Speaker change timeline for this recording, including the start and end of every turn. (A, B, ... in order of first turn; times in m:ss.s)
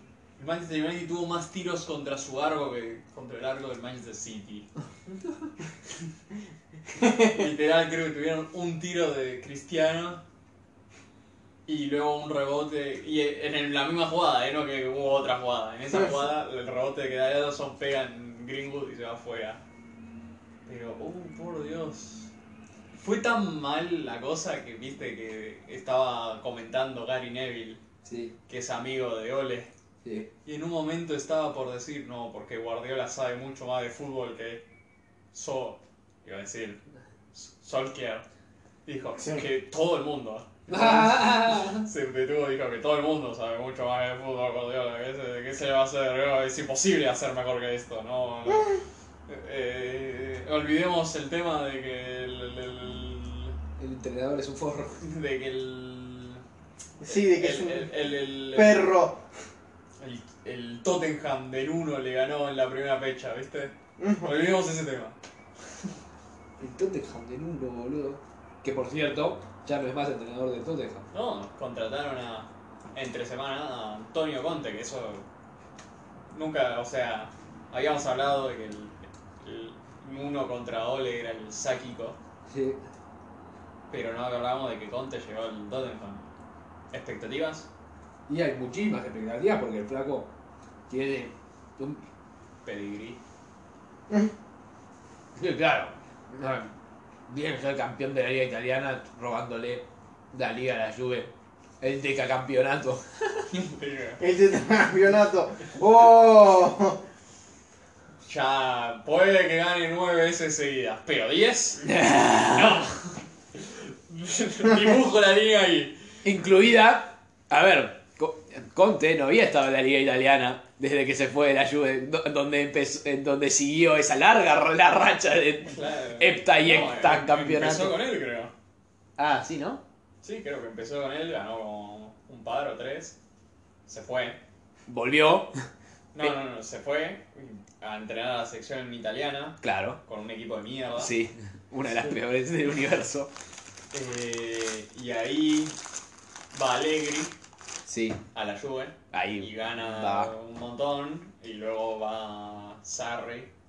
0:00.4-0:04.7 A
0:07.0-0:07.3 B
0:07.3-0:10.2 A
0:11.7-0:19.6 A
0:20.7-0:22.3 A
0:23.0-0:27.8 A
0:28.0-0:28.3 C
0:28.5-0:29.7 A
0:30.0-0:30.3 C
0:30.4-0:34.6 A
0:35.3-0:36.8 A
0:37.3-0:38.2 A
0:38.8-0:53.6 A
0:40.7-0:41.8 C
0:53.8-0:55.0 C
0:55.0-0:56.4 A
0:57.0-0:57.9 B
0:57.1-0:58.9 A
0:58.5-0:59.2 B
1:00.0-1:05.2 A
1:04.0-1:04.4 B
1:06.6-1:11.1 C
1:11.1-1:15.3 A
1:16.3-1:22.2 A
1:22.5-1:22.8 C
1:23.9-1:26.3 A
1:26.9-1:27.7 A
1:28.3-1:30.3 C
1:30.9-1:32.0 C
1:32.6-1:33.2 A
1:35.4-1:36.7 C
1:37.3-1:43.5 C
1:43.5-1:44.2 A
1:44.2-1:47.0 B
1:48.3-1:56.0 A
1:51.8-1:52.8 C
1:56.2-2:08.0 C
2:05.6-2:08.5 A
2:09.2-2:09.8 C
2:10.2-2:13.2 A
2:13.9-2:14.4 A
2:14.9-2:15.5 C
2:16.1-2:21.1 A
2:19.6-2:20.0 C
2:21.0-2:23.3 C
2:23.9-2:25.8 A
2:26.5-2:27.3 A
2:27.9-2:28.2 C
2:28.3-2:33.5 A
2:29.1-2:30.3 C